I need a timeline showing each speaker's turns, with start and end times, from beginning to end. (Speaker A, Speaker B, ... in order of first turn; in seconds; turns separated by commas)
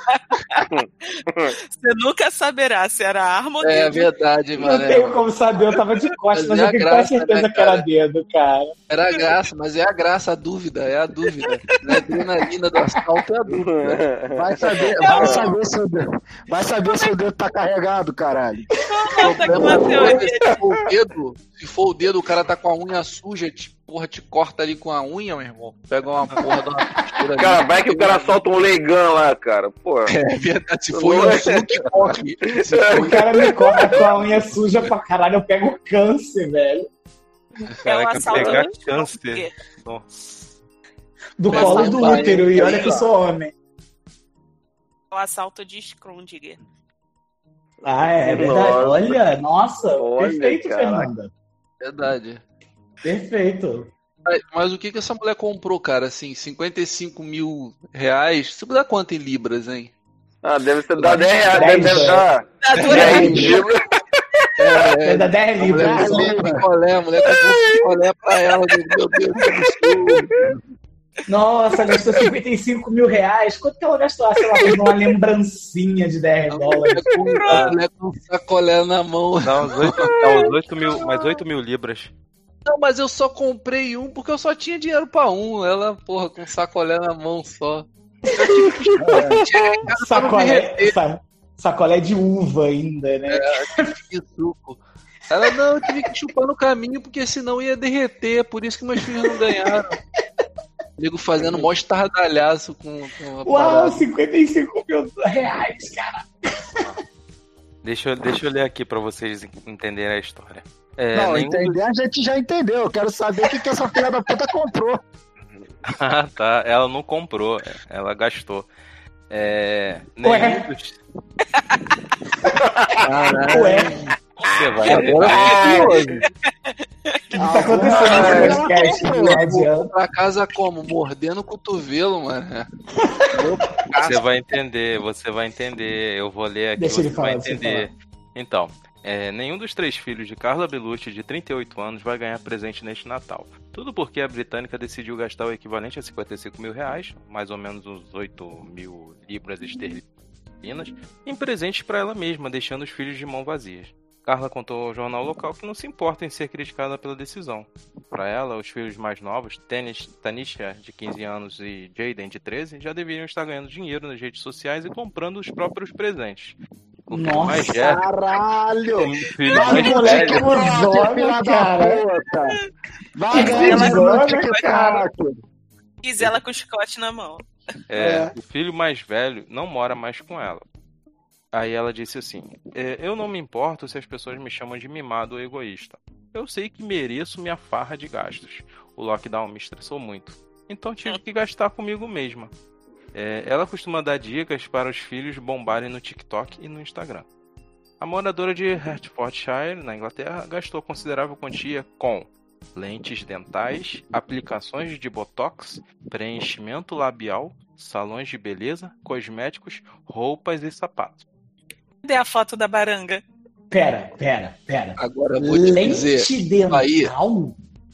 Speaker A: 0.1-4.1, Speaker B: 0.7-1.5, Speaker C: 3.6-5.2, Speaker D: 4.6-8.7, Speaker C: 6.3-7.8, Speaker C: 8.9-14.0, Speaker A: 9.1-9.4, Speaker A: 11.2-12.5, Speaker B: 13.5-15.4, Speaker E: 14.4-18.7, Speaker A: 14.9-15.5, Speaker A: 18.9-20.6, Speaker C: 19.2-28.4, Speaker B: 27.4-30.1, Speaker C: 30.1-34.1, Speaker B: 30.9-31.9, Speaker B: 32.5-34.0, Speaker D: 33.0-36.9, Speaker F: 37.8-40.6, Speaker A: 37.9-39.5, Speaker C: 38.2-38.6, Speaker D: 41.4-43.5, Speaker C: 41.5-43.1, Speaker A: 41.5-43.0, Speaker A: 45.1-46.6, Speaker D: 47.8-51.3, Speaker B: 48.1-49.2, Speaker B: 50.0-51.1, Speaker C: 51.8-52.4, Speaker D: 53.0-53.9, Speaker C: 54.3-59.9, Speaker B: 60.4-63.8, Speaker C: 61.0-62.2, Speaker D: 61.5-62.3, Speaker A: 62.6-63.7, Speaker C: 62.8-63.6, Speaker D: 62.8-63.6, Speaker C: 64.6-70.6, Speaker D: 65.0-66.5, Speaker E: 65.6-66.7, Speaker A: 67.2-67.5, Speaker B: 69.4-70.4, Speaker D: 71.3-77.1, Speaker C: 76.5-80.1, Speaker A: 77.1-77.8, Speaker F: 79.4-82.1, Speaker C: 82.7-91.0, Speaker B: 88.6-89.5, Speaker E: 89.0-89.4, Speaker D: 89.9-93.9, Speaker C: 93.3-100.0, Speaker C: 101.0-104.0, Speaker D: 103.4-106.3, Speaker F: 107.8-111.8, Speaker E: 111.1-115.0, Speaker F: 115.9-118.7, Speaker F: 119.3-121.0, Speaker D: 120.2-120.7, Speaker B: 122.6-123.1, Speaker C: 123.0-124.0, Speaker D: 123.5-124.1, Speaker F: 124.5-125.6, Speaker C: 124.8-126.2, Speaker B: 124.9-126.1, Speaker A: 125.3-126.3, Speaker E: 127.4-129.4, Speaker D: 127.4-129.9, Speaker C: 128.0-132.7, Speaker B: 128.0-128.6, Speaker D: 133.0-133.3, Speaker C: 133.3-134.3, Speaker F: 134.0-150.0, Speaker D: 136.8-137.9, Speaker F: 150.6-166.6, Speaker F: 167.1-168.1, Speaker D: 167.1-168.0, Speaker E: 167.6-172.6, Speaker F: 169.0-170.5, Speaker D: 169.6-172.0, Speaker E: 173.2-175.4, Speaker D: 173.3-175.1, Speaker A: 173.3-174.7, Speaker A: 176.0-177.4, Speaker F: 177.9-180.7, Speaker D: 178.0-178.3, Speaker F: 181.5-192.5, Speaker F: 193.1-197.3, Speaker F: 198.0-211.2, Speaker A: 212.0-213.2, Speaker D: 213.7-217.6, Speaker C: 215.0-217.1